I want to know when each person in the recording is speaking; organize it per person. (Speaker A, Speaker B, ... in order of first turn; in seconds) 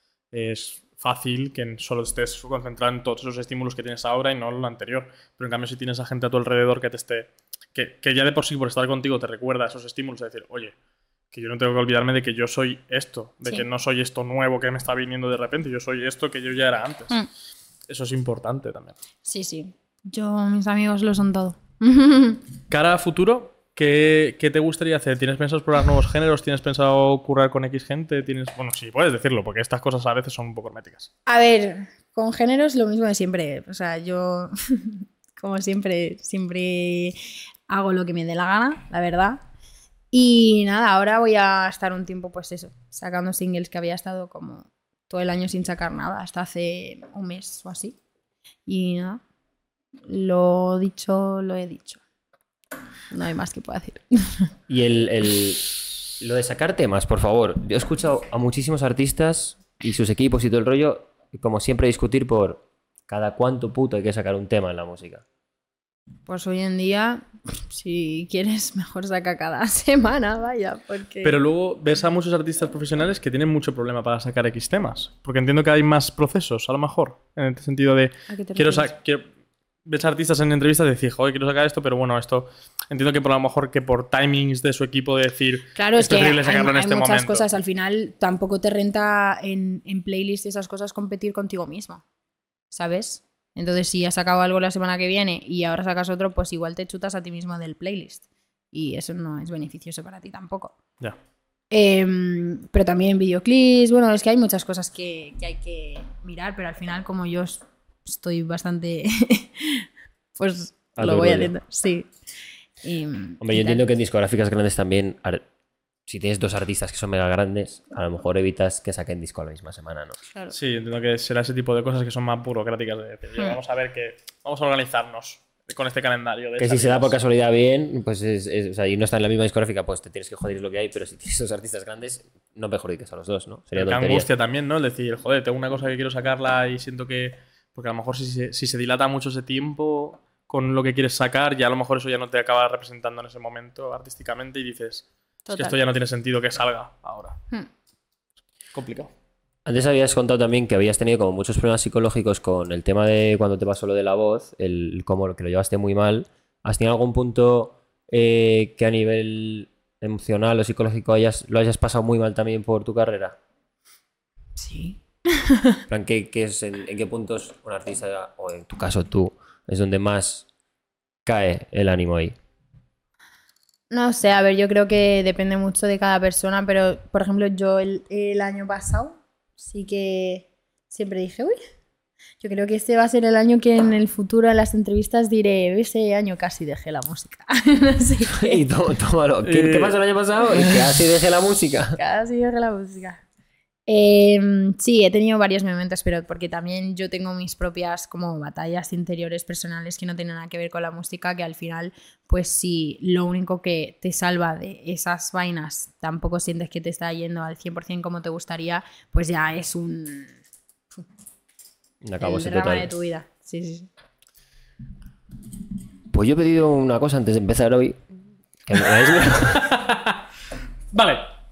Speaker A: 0.3-10.7, 11.3-17.1, 17.9-18.9, 22.7-31.1, 71.2-79.3, 79.8-87.5, 120.5-127.1, 133.7-147.4, 148.7-149.1, 189.4-190.0, 219.5-220.2, 220.9-221.3
Speaker B: 19.2-22.4, 31.2-37.1, 37.7-39.4, 40.1-48.0, 48.7-49.2, 50.0-52.0, 53.1-54.5, 66.3-71.4, 78.3-78.9, 85.7-92.0, 92.7-100.8, 101.7-112.1, 112.8-113.8, 145.5-145.8, 164.6-165.8, 173.9-181.6, 182.4-188.6, 192.0-193.2, 193.9-210.3, 212.2-213.9
Speaker C: 54.7-65.2, 111.0-111.5, 113.4-115.4, 116.1-120.2, 126.6-134.3, 149.6-163.4, 165.9-170.4, 171.2-172.4, 188.3-192.0, 212.0-212.9, 216.1-218.0, 218.7-219.8